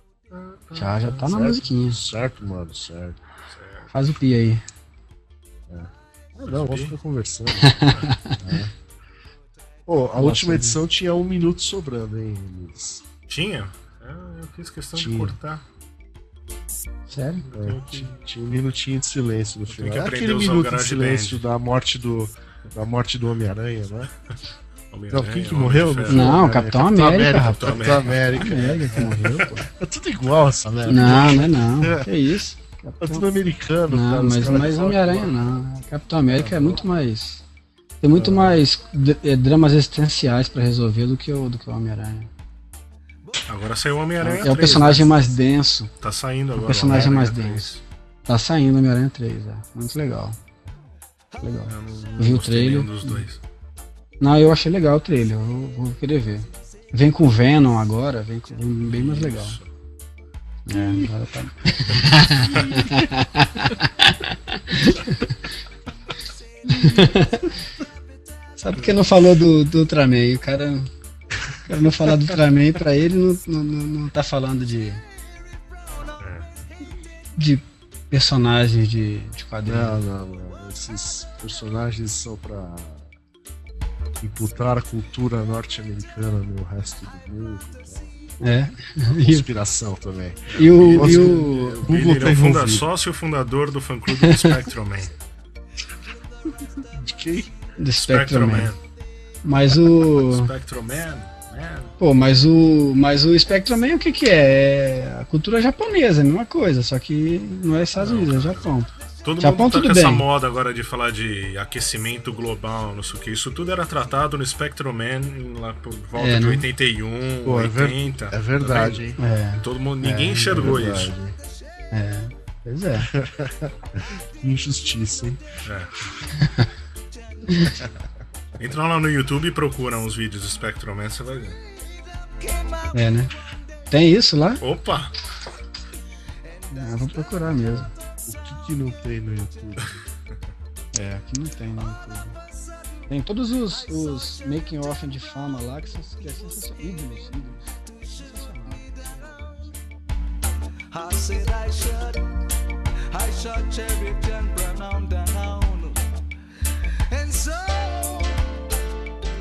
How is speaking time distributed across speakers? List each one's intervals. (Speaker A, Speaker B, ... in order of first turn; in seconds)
Speaker A: 0.3-1.3, 3.5-3.9, 6.4-6.9, 7.9-8.2, 13.3-15.6, 17.4-18.1, 19.7-21.4, 24.9-26.4, 27.5-29.1, 43.5-45.2, 46.0-47.8, 51.6-53.4, 58.9-59.7, 76.2-76.5, 90.5-95.1, 98.0-98.8, 100.0-101.9, 108.0-108.7, 109.2-119.0, 119.6-121.1, 125.6-126.0, 128.6-131.6, 134.6-135.2
Speaker B: 0.7-2.0, 3.9-4.6, 7.6-8.4, 10.2-10.8, 17.1-17.4, 26.1-29.7, 30.8-33.2, 33.9-37.4, 38.0-42.3, 44.2-45.9, 46.5-47.7, 48.2-50.4, 51.4-53.2, 54.2-59.6, 60.7-65.4, 66.7-67.5, 68.6-70.9, 71.6-75.0, 77.3-80.0, 88.4-89.5, 90.5-91.9, 94.2-94.5, 97.8-98.7, 99.4-100.5, 102.0-108.9, 109.4-110.2, 116.2-116.7, 119.2-120.8, 121.9-123.1, 126.4-126.7, 132.9-133.3, 133.9-134.6, 136.7-137.9, 140.9-142.3, 143.1-149.3
Speaker C: 1.2-3.2, 5.7-8.7, 9.8-13.0, 14.9-15.3, 17.5-24.1, 25.1-32.2, 33.0-35.4, 36.2-36.8, 38.1-38.6, 60.7-61.1, 62.3-63.1, 79.7-83.1, 84.2-88.1, 89.0-92.9, 96.9-97.5, 117.4-119.2, 120.5-121.4, 123.0-125.4, 138.3-140.0
Speaker D: 66.6-68.0, 75.6-77.1, 127.3-127.9, 131.6-133.6, 136.4-137.8, 141.8-144.8, 146.2-149.8, 150.9-152.4, 153.1-156.1, 157.1-158.7